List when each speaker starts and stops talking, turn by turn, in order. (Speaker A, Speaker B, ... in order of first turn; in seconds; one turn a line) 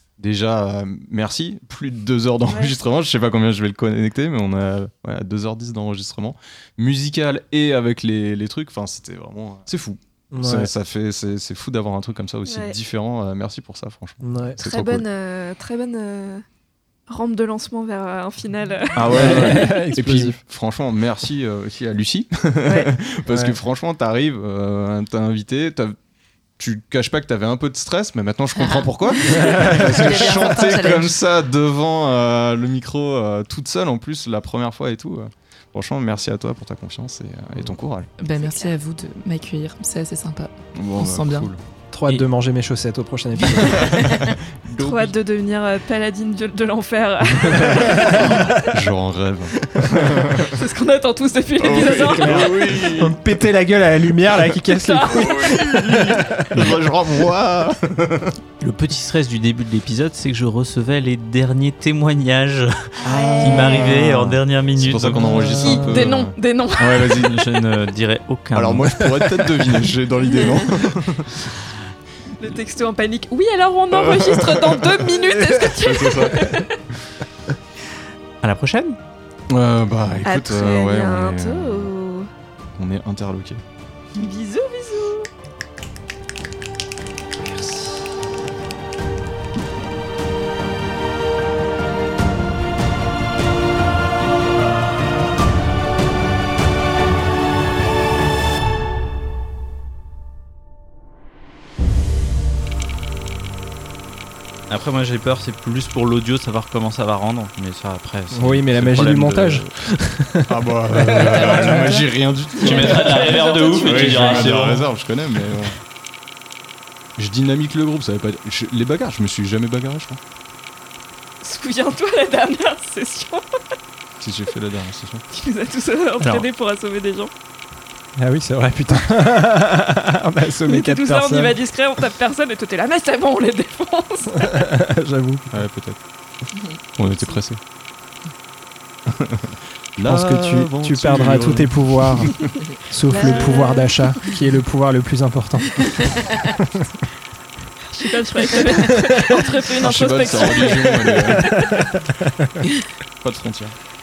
Speaker A: 0.2-15.1
Speaker B: 2.5-2.8
Speaker C: 10.3-10.7
Speaker B: 12.5-12.8
Speaker C: 14.2-14.6
Speaker B: 14.6-16.4
Speaker B: 17.1-19.8
Speaker A: 18.9-26.0
Speaker C: 19.1-20.4
Speaker B: 22.7-22.9
Speaker C: 23.3-23.6
Speaker A: 26.6-38.1
Speaker B: 28.6-31.2
Speaker C: 29.5-29.8
Speaker D: 38.2-41.5
Speaker B: 38.3-38.7
Speaker A: 40.8-41.6
Speaker C: 41.9-44.0
Speaker A: 43.8-45.2
Speaker B: 44.8-48.6
Speaker A: 48.0-50.4
Speaker B: 50.4-52.8
Speaker A: 51.6-53.2
Speaker C: 52.0-56.8
Speaker B: 54.7-55.8
Speaker A: 55.1-58.4
Speaker E: 58.6-62.8
Speaker A: 63.0-67.4
Speaker B: 63.1-63.7
Speaker E: 63.4-65.8
Speaker C: 65.3-66.1
Speaker B: 65.5-67.3
Speaker E: 67.0-69.0
Speaker A: 68.5-71.5
Speaker B: 70.3-70.6
Speaker B: 72.4-76.8
Speaker A: 73.9-76.5
Speaker E: 78.4-79.0
Speaker A: 79.5-81.9
Speaker B: 80.2-82.3
Speaker A: 82.8-83.6
Speaker B: 84.2-85.3
Speaker A: 87.5-88.0
Speaker E: 104.7-109.7
Speaker C: 108.3-111.9
Speaker A: 110.5-115.8
Speaker B: 111.5-114.7
Speaker E: 112.6-114.9
Speaker A: 117.2-120.2
Speaker B: 121.4-123.5
Speaker A: 124.2-125.2
Speaker B: 125.3-127.3
Speaker E: 126.2-126.5
Speaker C: 128.2-131.6
Speaker B: 130.7-134.5
Speaker C: 134.4-135.6
Speaker A: 135.5-136.0
Speaker A: 137.0-137.6
Speaker A: 139.1-142.1
Speaker C: 140.1-146.8
Speaker B: 143.1-144.0
Speaker B: 147.9-151.9
Speaker A: 149.8-151.7
Speaker A: 153.2-153.8